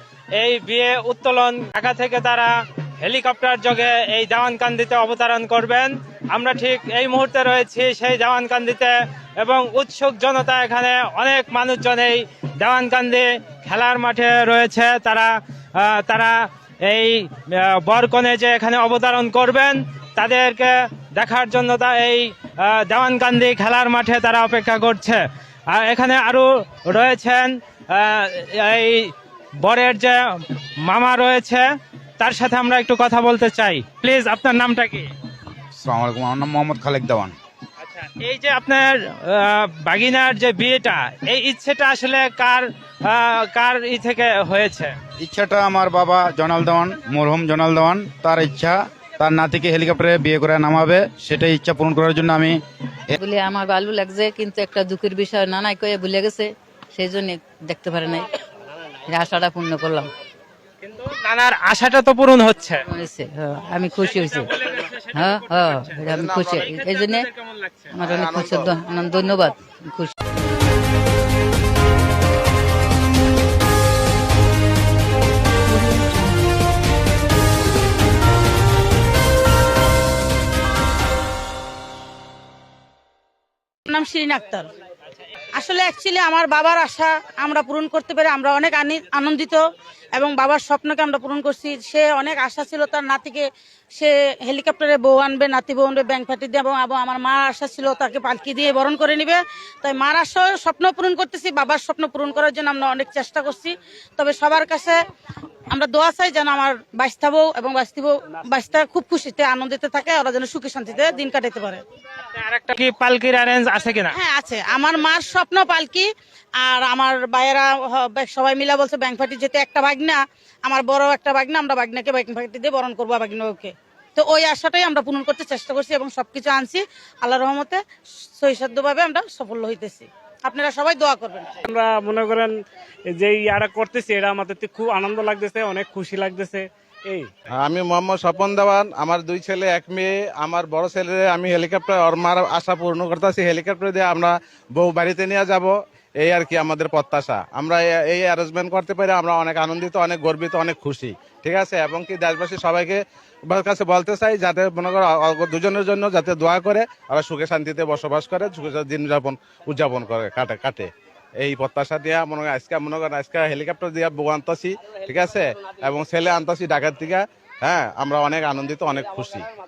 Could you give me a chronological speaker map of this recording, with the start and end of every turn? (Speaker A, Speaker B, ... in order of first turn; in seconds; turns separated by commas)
Speaker A: 0.3-30.2, Speaker A: 30.8-31.6, Speaker A: 32.2-35.1, Speaker B: 35.8-37.3, Speaker A: 37.8-44.9, Speaker B: 45.2-52.6, Speaker C: 53.2-58.3, Speaker C: 59.1-60.1, Speaker A: 60.8-62.9, Speaker C: 62.9-64.5, Speaker A: 64.0-68.0, Speaker C: 65.1-67.3, Speaker D: 66.1-66.7, Speaker C: 67.9-70.1, Speaker D: 68.0-68.8, Speaker C: 75.7-76.2, Speaker E: 83.9-84.7, Speaker E: 85.5-89.6, Speaker E: 90.1-105.0, Speaker E: 105.7-111.8, Speaker A: 112.3-114.2, Speaker E: 114.1-116.1, Speaker E: 116.6-127.8, Speaker E: 128.4-131.6, Speaker F: 131.6-132.6, Speaker F: 133.1-137.3, Speaker D: 137.6-160.9, Speaker D: 161.4-169.5